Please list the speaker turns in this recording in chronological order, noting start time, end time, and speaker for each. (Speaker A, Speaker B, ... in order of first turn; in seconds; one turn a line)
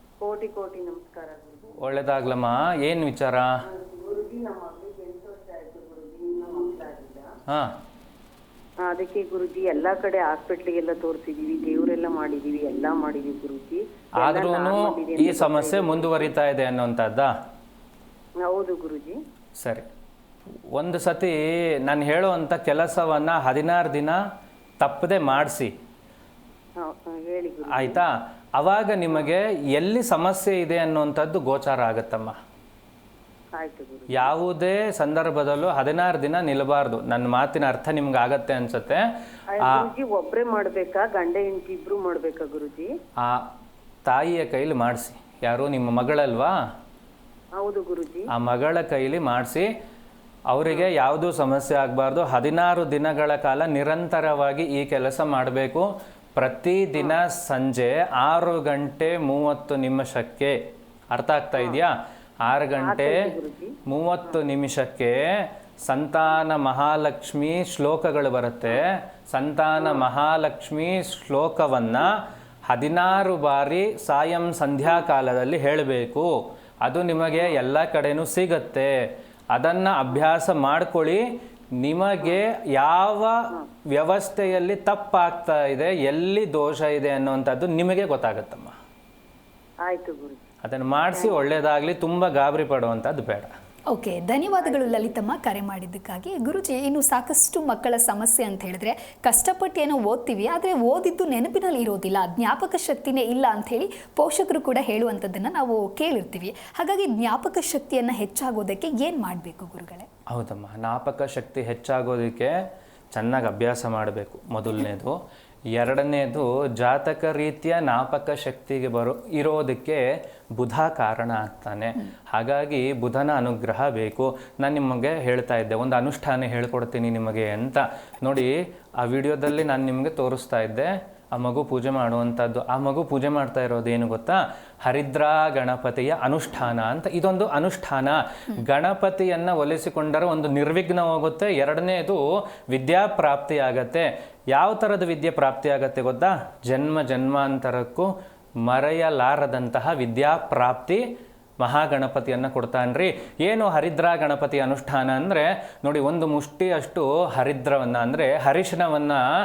Speaker A: 0.2-1.9
Speaker B: 1.8-3.6
Speaker A: 3.6-7.3
Speaker B: 7.5-7.8
Speaker A: 8.8-16.3
Speaker B: 14.2-17.3
Speaker A: 18.4-19.2
Speaker B: 19.6-19.9
Speaker B: 20.7-24.2
Speaker B: 24.8-25.7
Speaker A: 26.8-28.0
Speaker B: 27.7-32.4
Speaker A: 33.5-34.3
Speaker B: 34.1-39.0
Speaker A: 39.5-42.9
Speaker B: 39.6-39.9
Speaker B: 43.2-43.5
Speaker B: 44.0-46.6
Speaker A: 47.5-48.3
Speaker B: 48.3-49.7
Speaker B: 50.5-60.6
Speaker B: 61.1-63.2
Speaker A: 62.8-63.8
Speaker B: 63.9-88.8
Speaker A: 89.8-90.4
Speaker B: 90.6-93.5
Speaker A: 91.1-91.4
Speaker C: 93.9-110.1
Speaker A: 94.6-95.1
Speaker B: 110.3-112.5
Speaker B: 113.1-115.2
Speaker B: 115.7-120.0
Speaker B: 120.5-148.1
Speaker B: 148.6-151.1
Speaker B: 151.6-159.2